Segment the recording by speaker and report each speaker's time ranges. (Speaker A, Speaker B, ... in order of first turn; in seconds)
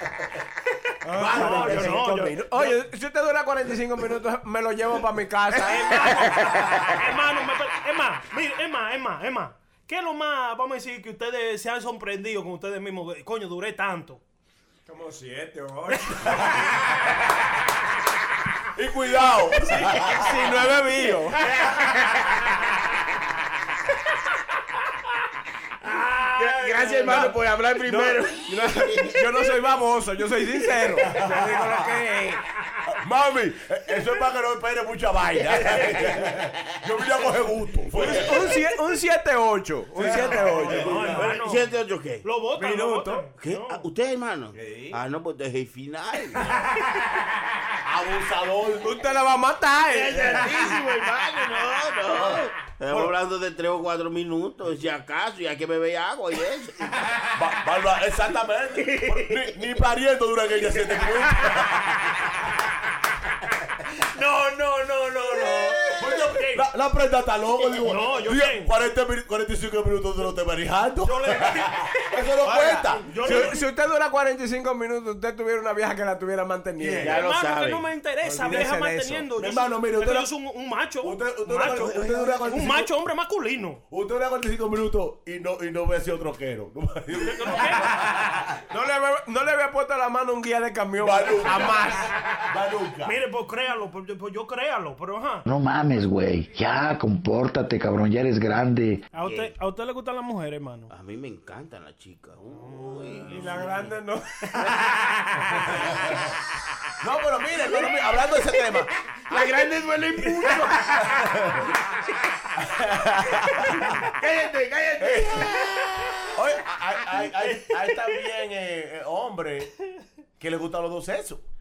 Speaker A: 1.0-6.9, 14.9-16.8, 19.7-21.5, 26.9-32.4, 37.9-41.3, 42.5-43.3, 44.5-45.0, 48.8-50.6, 72.4-77.2, 78.2-79.3, 88.7-92.1, 103.3-104.9
Speaker B: 1.1-2.1, 18.8-20.5, 31.0-31.6, 32.9-38.6, 40.0-41.2, 47.8-49.0, 50.1-50.6, 57.4-62.0, 66.0-73.5, 76.8-77.2, 79.4-80.3, 81.0-82.9, 83.9-88.6, 91.0-93.2, 107.0-108.9, 110.2-111.7, 112.6-114.0, 115.0-115.5, 116.3-119.7, 120.4-121.4
Speaker C: 1.3-2.8, 5.5-14.2, 26.8-27.3, 40.0-41.7, 42.2-43.9, 64.2-66.6, 67.8-68.7, 71.0-71.7, 73.0-73.6, 77.1-83.8, 87.2-87.9, 93.0-95.5, 99.1-100.9, 102.7-103.2, 117.4-118.1
Speaker D: 21.5-22.5, 26.0-29.2, 40.2-42.3, 43.4-46.6, 49.9-57.1, 58.9-59.5, 77.0-77.9, 99.2-99.5, 100.9-103.9, 104.8-105.6, 109.3-111.2, 114.0-116.1
Speaker E: 95.5-99.0